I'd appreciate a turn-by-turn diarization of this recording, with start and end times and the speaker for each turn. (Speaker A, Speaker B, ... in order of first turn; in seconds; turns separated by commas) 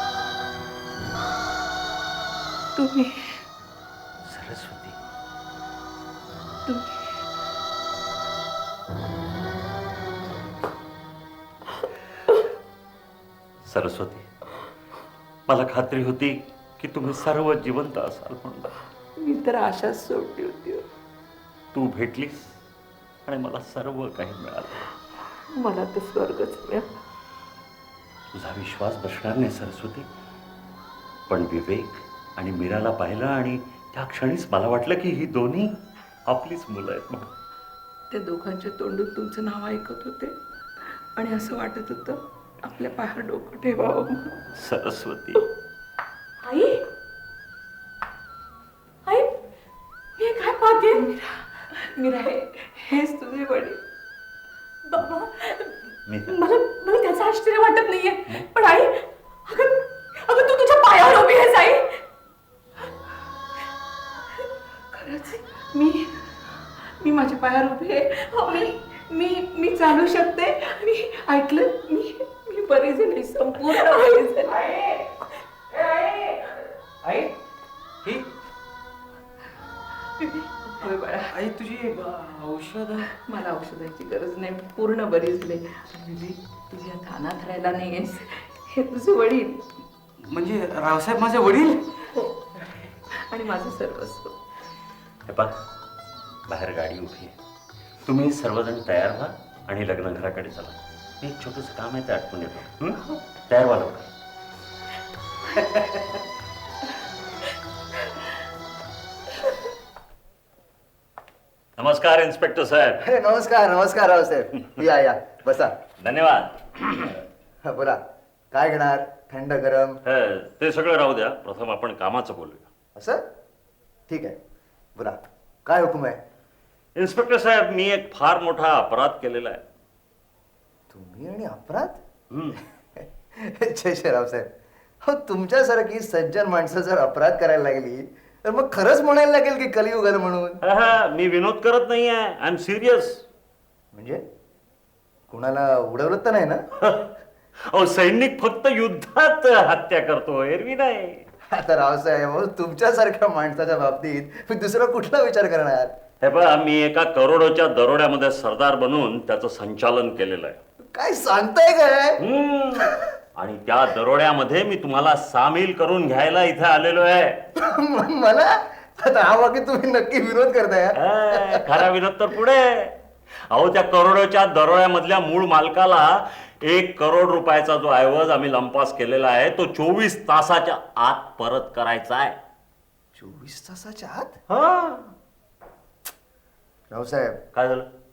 Speaker A: 2.8-3.4, Speaker B: 4.2-5.0, Speaker B: 13.7-14.2, Speaker B: 15.5-18.7, Speaker A: 19.2-20.8, Speaker B: 21.7-22.5, Speaker B: 23.2-24.9, Speaker A: 25.5-26.9, Speaker B: 28.3-30.1, Speaker B: 31.3-35.8, Speaker B: 36.3-37.3, Speaker A: 38.1-40.3, Speaker A: 41.2-44.3, Speaker B: 44.6-45.4, Speaker C: 46.4-46.8, Speaker C: 49.0-49.4, Speaker C: 50.2-51.1, Speaker A: 51.0-51.3, Speaker A: 52.0-53.8, Speaker C: 54.9-62.0, Speaker B: 56.1-56.3, Speaker A: 64.9-66.1, Speaker A: 67.0-74.7, Speaker A: 80.6-81.4, Speaker D: 81.9-82.4, Speaker A: 83.0-89.6, Speaker D: 90.3-91.8, Speaker A: 93.3-94.3, Speaker B: 96.5-97.3, Speaker B: 98.0-104.1, Speaker B: 111.8-113.0, Speaker E: 113.0-115.7, Speaker B: 116.0-117.2, Speaker E: 117.7-118.0, Speaker E: 118.5-120.0, Speaker B: 120.0-122.7, Speaker E: 122.9-123.2, Speaker E: 124.1-124.3, Speaker E: 125.0-126.2, Speaker B: 127.0-129.6, Speaker E: 130.9-132.0, Speaker B: 132.3-132.6, Speaker E: 133.5-134.5, Speaker E: 135.1-140.6, Speaker B: 140.6-143.2, Speaker E: 143.9-144.2, Speaker E: 145.3-146.6, Speaker B: 146.8-147.1, Speaker B: 147.7-151.2, Speaker E: 151.5-155.9, Speaker B: 156.2-160.6, Speaker E: 160.9-162.2, Speaker B: 162.2-167.4, Speaker E: 167.6-171.6, Speaker B: 171.0-172.9, Speaker B: 173.5-182.4, Speaker E: 183.1-184.4, Speaker D: 184.6-184.9, Speaker E: 186.9-187.4, Speaker B: 187.5-187.9